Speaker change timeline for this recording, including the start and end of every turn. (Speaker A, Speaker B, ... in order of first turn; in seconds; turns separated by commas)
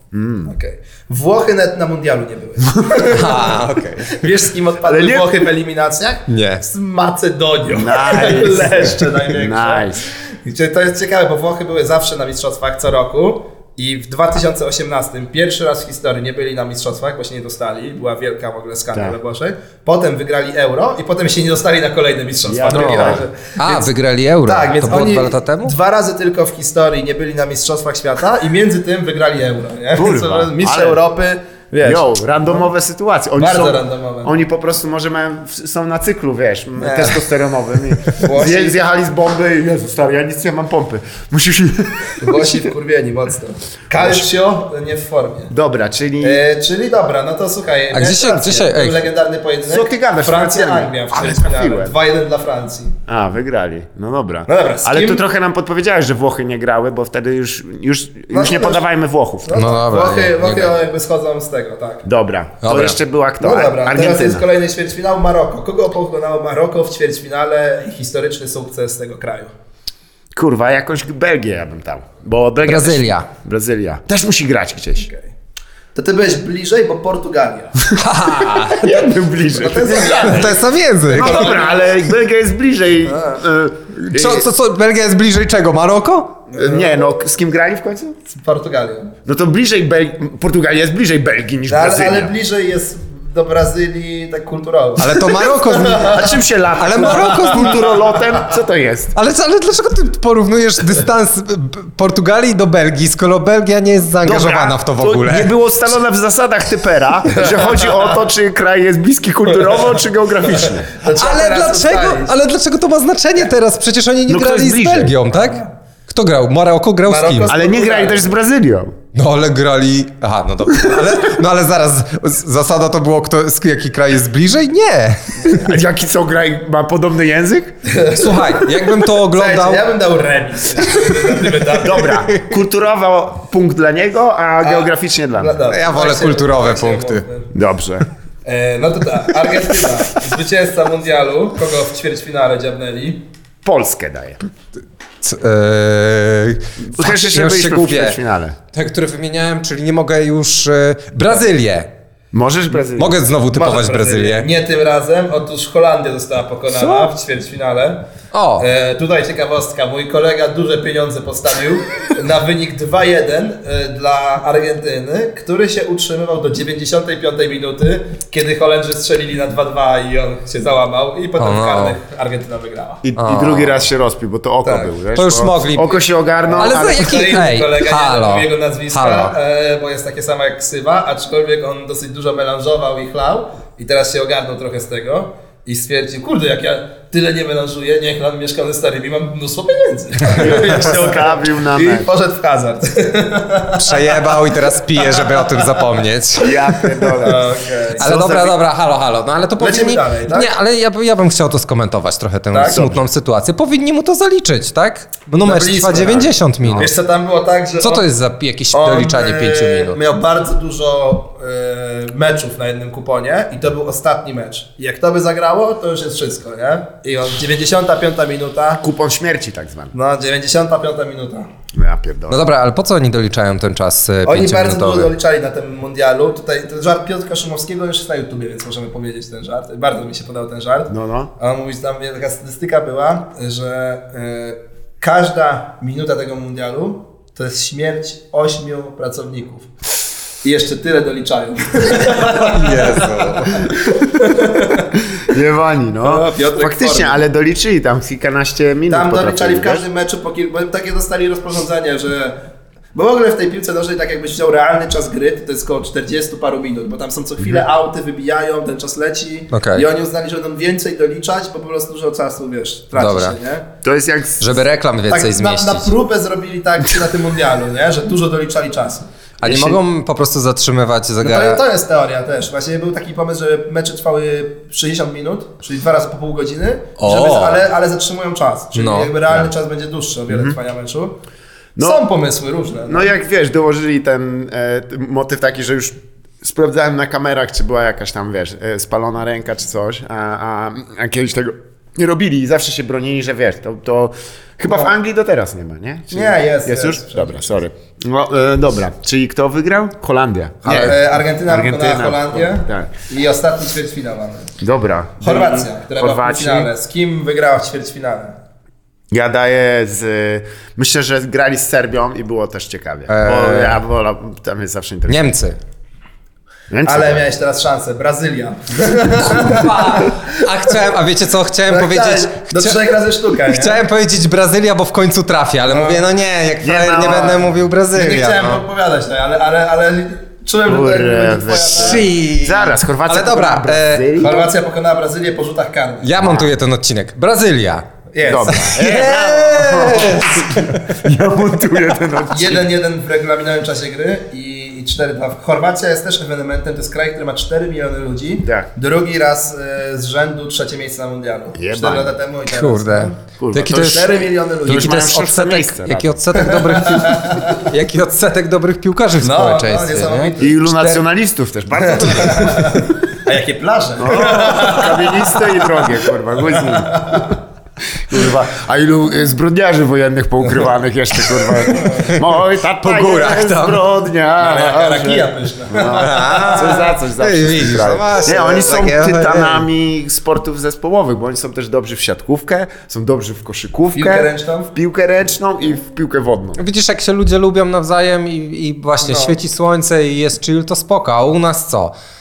Speaker A: 0.1-0.5, Speaker B: 0.5-23.9, Speaker A: 2.7-3.0, Speaker C: 3.1-4.2, Speaker A: 4.8-5.3, Speaker C: 6.3-6.6, Speaker A: 7.7-10.1, Speaker A: 22.4-23.2, Speaker C: 22.7-25.7, Speaker B: 24.4-32.6, Speaker A: 29.9-31.0, Speaker A: 31.8-42.5, Speaker B: 33.4-34.3, Speaker B: 36.8-37.2, Speaker B: 38.1-38.8, Speaker B: 42.2-45.5, Speaker A: 43.9-44.3, Speaker A: 45.5-46.4, Speaker B: 46.2-53.0, Speaker C: 47.9-49.0, Speaker A: 49.7-51.9, Speaker A: 53.1-59.7, Speaker B: 54.5-55.2, Speaker B: 58.3-58.8, Speaker B: 59.4-62.1, Speaker C: 59.5-60.8, Speaker A: 62.0-64.5, Speaker C: 62.6-63.0, Speaker B: 63.4-69.5, Speaker A: 70.3-75.1, Speaker C: 72.6-73.3, Speaker B: 75.0-75.3, Speaker B: 75.9-77.8, Speaker A: 77.9-84.5, Speaker C: 78.0-78.9, Speaker B: 79.5-81.9, Speaker C: 80.2-81.6, Speaker B: 83.0-83.4, Speaker C: 84.0-86.4, Speaker A: 86.5-88.2, Speaker B: 86.5-87.0, Speaker B: 88.3-89.1, Speaker A: 89.2-92.3, Speaker B: 91.7-96.3, Speaker C: 95.0-96.2, Speaker A: 96.0-99.2, Speaker C: 96.8-97.9, Speaker B: 97.2-97.5, Speaker C: 99.1-105.5, Speaker A: 104.2-110.9, Speaker B: 107.3-108.2, Speaker B: 110.5-112.3, Speaker C: 111.1-117.5, Speaker A: 114.3-115.2, Speaker B: 115.3-115.7, Speaker B: 117.0-118.3, Speaker A: 117.5-119.0, Speaker C: 119.1-125.6, Speaker A: 125.5-127.8, Speaker B: 127.8-132.2, Speaker C: 128.1-129.9, Speaker A: 131.8-135.6, Speaker C: 132.1-132.5, Speaker B: 134.6-137.5, Speaker C: 135.7-137.2, Speaker A: 137.5-138.1, Speaker B: 138.4-143.2, Speaker A: 143.6-144.4, Speaker C: 145.2-148.2, Speaker A: 146.8-148.6, Speaker C: 148.7-151.9, Speaker A: 152.3-153.2, Speaker C: 152.9-154.5, Speaker B: 153.5-158.0, Speaker C: 156.7-157.1, Speaker C: 158.3-158.7, Speaker B: 158.6-173.0, Speaker C: 171.4-172.0, Speaker A: 173.0-177.3, Speaker C: 173.2-173.8, Speaker B: 174.6-174.9, Speaker C: 175.1-176.0, Speaker B: 176.4-194.3, Speaker C: 176.6-179.3, Speaker A: 190.3-192.1, Speaker C: 193.8-196.6, Speaker B: 194.9-195.7, Speaker A: 196.4-198.6, Speaker B: 197.2-198.1, Speaker C: 197.9-206.9, Speaker B: 199.6-200.5, Speaker B: 202.5-203.0, Speaker B: 205.4-208.0, Speaker C: 207.8-210.0, Speaker B: 208.7-218.8, Speaker A: 218.8-219.9, Speaker B: 219.9-221.5, Speaker A: 221.7-222.4, Speaker C: 222.3-225.1, Speaker B: 224.2-239.7, Speaker A: 230.9-231.3, Speaker B: 240.4-245.0, Speaker C: 242.0-243.7, Speaker A: 245.2-249.8, Speaker B: 246.0-247.2, Speaker B: 248.9-252.4, Speaker B: 252.9-263.7, Speaker C: 259.5-259.9, Speaker C: 262.9-263.4, Speaker A: 263.8-264.6, Speaker C: 264.4-265.9, Speaker B: 265.1-269.1, Speaker C: 269.4-271.6, Speaker A: 269.4-269.8, Speaker B: 271.2-281.2, Speaker C: 277.0-277.6, Speaker C: 278.7-279.4, Speaker A: 280.3-280.6, Speaker A: 281.8-282.1, Speaker B: 281.8-283.1, Speaker A: 282.9-302.9, Speaker B: 296.1-297.6, Speaker B: 300.6-304.5, Speaker A: 304.6-306.7, Speaker B: 305.2-308.4, Speaker A: 309.1-315.2, Speaker C: 313.1-313.8, Speaker C: 315.1-315.6, Speaker A: 316.7-317.2, Speaker B: 316.8-320.4, Speaker C: 319.3-322.9, Speaker B: 321.7-323.8, Speaker C: 323.4-328.6, Speaker B: 325.7-326.0, Speaker A: 326.6-327.6, Speaker B: 327.9-332.1, Speaker A: 330.6-334.5, Speaker C: 331.7-334.3, Speaker B: 334.2-336.1, Speaker C: 336.0-337.9, Speaker A: 336.2-336.5, Speaker B: 338.1-338.6, Speaker A: 338.2-342.7, Speaker C: 338.5-340.9, Speaker B: 342.3-355.1, Speaker A: 348.4-348.7, Speaker A: 351.5-352.1, Speaker C: 352.5-361.0, Speaker A: 353.4-356.2, Speaker B: 356.3-357.6, Speaker B: 359.2-360.6, Speaker A: 360.4-362.8, Speaker B: 361.8-367.4, Speaker A: 364.0-367.4, Speaker A: 368.0-386.6, Speaker C: 371.4-372.2, Speaker B: 371.7-372.1, Speaker C: 372.8-373.8, Speaker B: 374.4-376.9, Speaker C: 375.9-379.7, Speaker B: 383.9-384.7, Speaker C: 386.6-391.9, Speaker B: 389.0-389.4